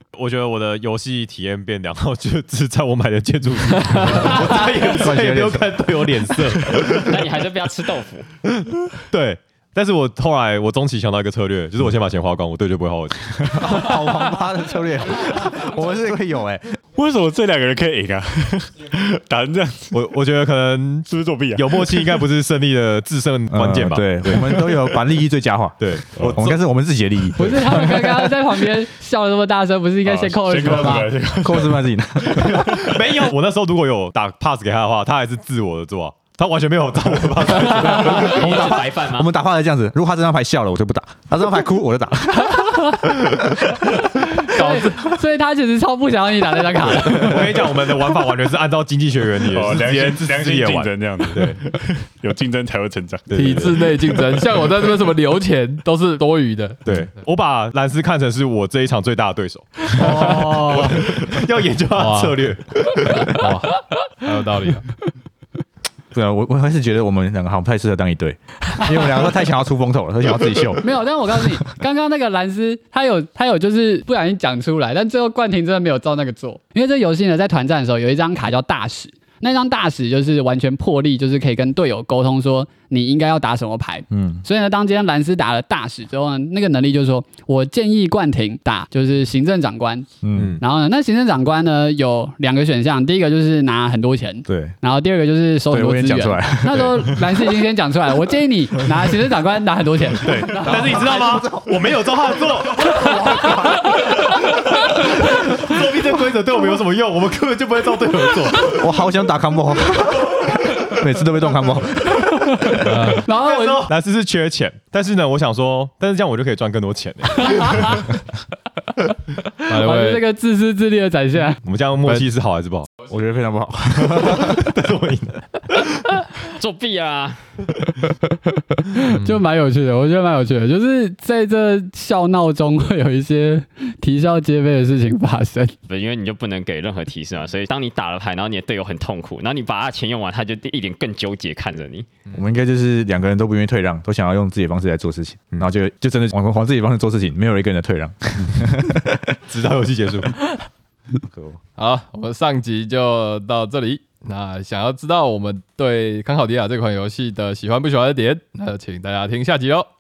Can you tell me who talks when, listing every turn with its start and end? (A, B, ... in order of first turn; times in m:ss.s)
0:00.2-0:07.2 A
0:04.2-0:04.9 B
0:04.2-0:05.9 C
0:07.0-0:08.3 D
0:08.4-0:14.1 A
0:13.4-0:16.7 C
0:17.0-0:20.0 E
0:19.9-0:24.7 A
0:21.1-0:22.2 E
0:23.5-0:28.2 C
0:25.8-0:26.6 A
0:27.4-0:31.1 B
0:30.0-0:32.9 E
0:31.4-0:32.9 C
0:32.5-0:38.5 A
0:37.6-0:43.4 C
0:37.6-0:39.3 D
0:44.4-0:47.7 B
0:44.5-0:45.0 F
0:46.9-0:51.6 A
0:49.4-0:53.3 E
0:53.3-0:53.9 A
0:53.3-0:56.8 F
0:56.8-1:03.5 A
1:00.0-1:01.0 B
1:00.0-1:00.4 F
1:01.9-1:02.4 F
1:03.4-1:04.9 F
1:06.1-1:10.8 C
1:10.8-1:30.1 B
1:24.1-1:24.4 C
1:30.2-1:30.6 C
1:30.4-1:30.6 A
1:30.6-1:40.8 B
1:34.5-1:34.8 C
1:35.7-1:37.4 C
1:40.2-1:49.0 A
1:40.4-1:43.9 C
1:48.7-1:52.9 C
1:52.8-1:53.2 F
1:53.2-1:58.2 A
1:53.2-1:53.9 B
1:59.7-2:00.2 F
1:59.7-2:01.6 B
2:01.6-2:02.9 A
2:03.1-2:04.7 C
2:04.0-2:06.2 A
2:06.6-2:07.4 D
2:08.9-2:15.7 B
2:09.1-2:09.4 F
2:15.9-2:22.1 D
2:22.3-2:29.2 C
2:29.3-2:30.4 A
2:31.8-2:39.9 F